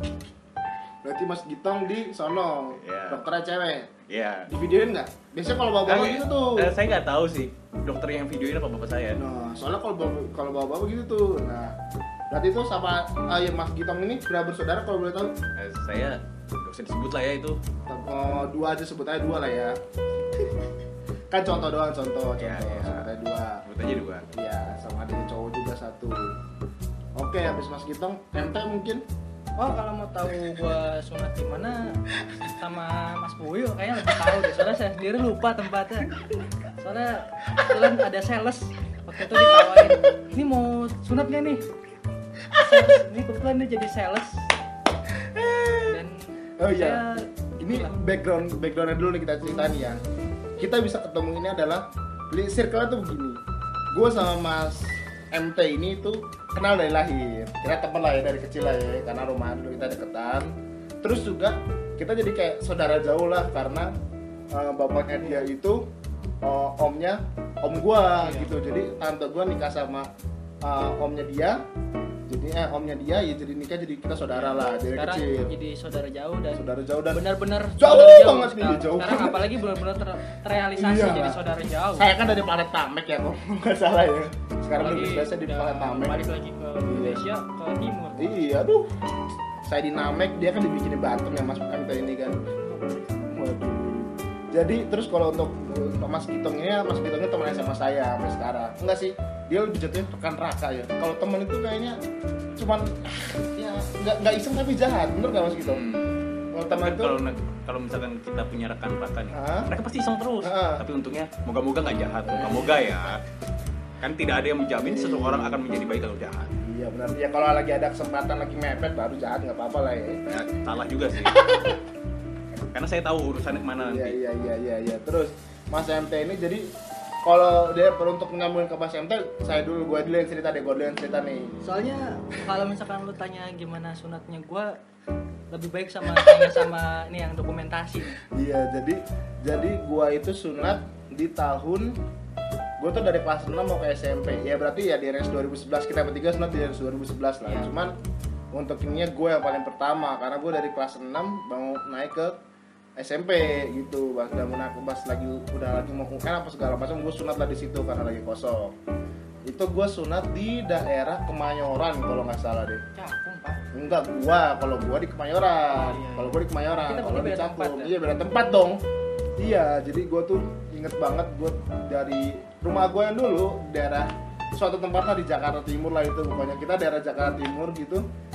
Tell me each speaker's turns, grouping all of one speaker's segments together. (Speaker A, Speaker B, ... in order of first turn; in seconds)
Speaker A: 1.0-3.9, 4.5-6.7, 9.2-11.7, 12.3-15.3, 17.9-19.8, 21.3-23.6, 24.3-26.3, 27.2-29.0, 37.5-38.0, 39.3-40.2, 42.5-43.0, 45.1-46.0, 46.6-47.0, 47.6-50.0, 50.6-53.4, 53.9-63.9, 64.5-65.9, 66.4-70.1, 70.6-71.6, 72.3-75.5, 76.5-77.2, 77.8-79.6, 80.8-81.4, 82.0-86.2, 86.9-87.2, 88.2-88.9, 89.7-92.4, 93.3-102.0, 102.6-105.9, 106.5-107.2, 109.3-109.7, 110.4-110.8, 112.3-112.9, 114.8-115.6, 116.6-120.4, 121.3-121.8, 123.8-126.7, 127.2-131.5, 138.2-141.9, 142.8-147.9, 148.5-152.4, 153.0-158.8, 159.5-162.8, 163.7-168.8, 169.4-178.0
Speaker B: 2.8-3.2, 4.1-4.5, 5.8-9.2, 15.6-17.6, 22.4-23.1, 23.6-24.3, 105.6-106.1, 106.7-113.2, 114.0-116.5, 120.3-121.4, 122.7-124.2
Speaker C: 29.6-41.6, 42.6-44.5, 45.9-48.0, 65.1-65.5, 68.2-68.5, 74.3-82.1, 84.8-88.4, 92.6-93.4, 131.6-134.8, 135.5-138.2, 147.4-147.7, 162.9-163.6, 165.7-167.9